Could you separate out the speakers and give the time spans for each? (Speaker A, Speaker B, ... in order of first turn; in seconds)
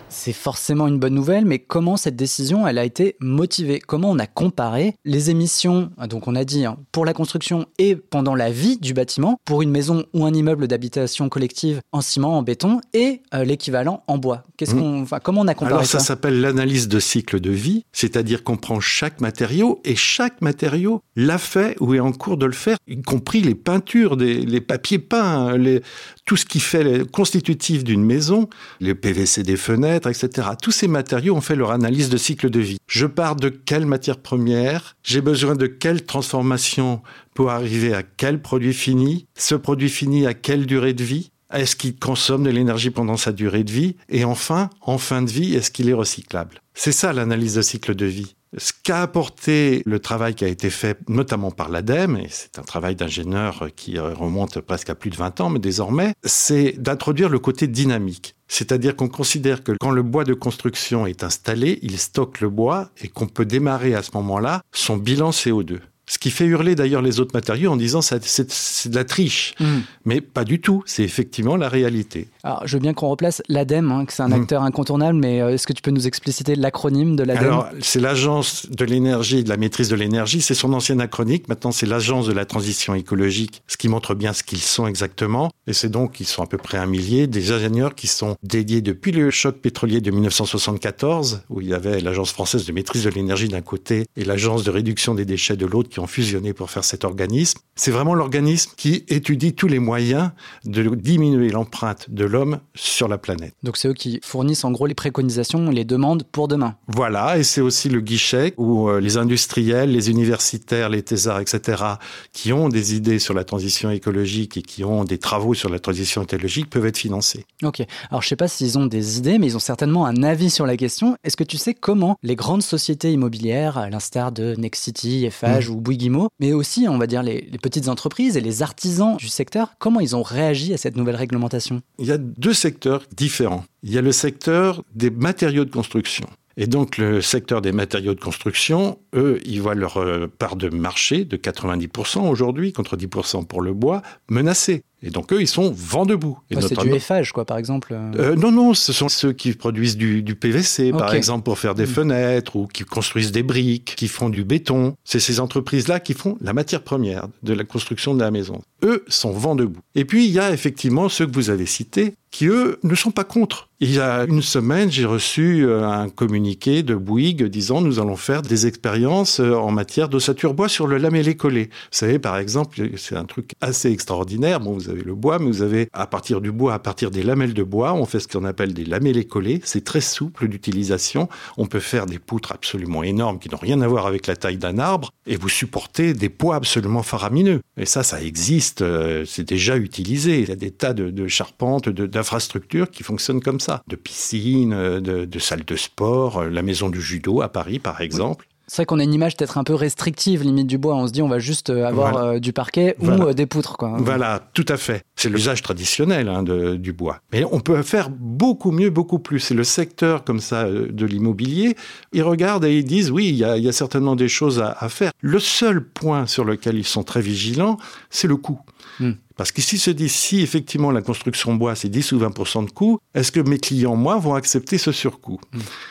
Speaker A: 0.1-16.1, 69.6-69.9, 72.4-77.6, 103.6-106.8, 117.6-131.8, 146.5-148.2, 150.9-151.3, 198.7-204.2
Speaker B: 15.6-72.3, 77.3-103.5, 106.9-117.5, 132.0-147.0, 148.1-198.5, 201.9-202.2, 203.0-203.3, 203.9-218.6, 219.4-225.5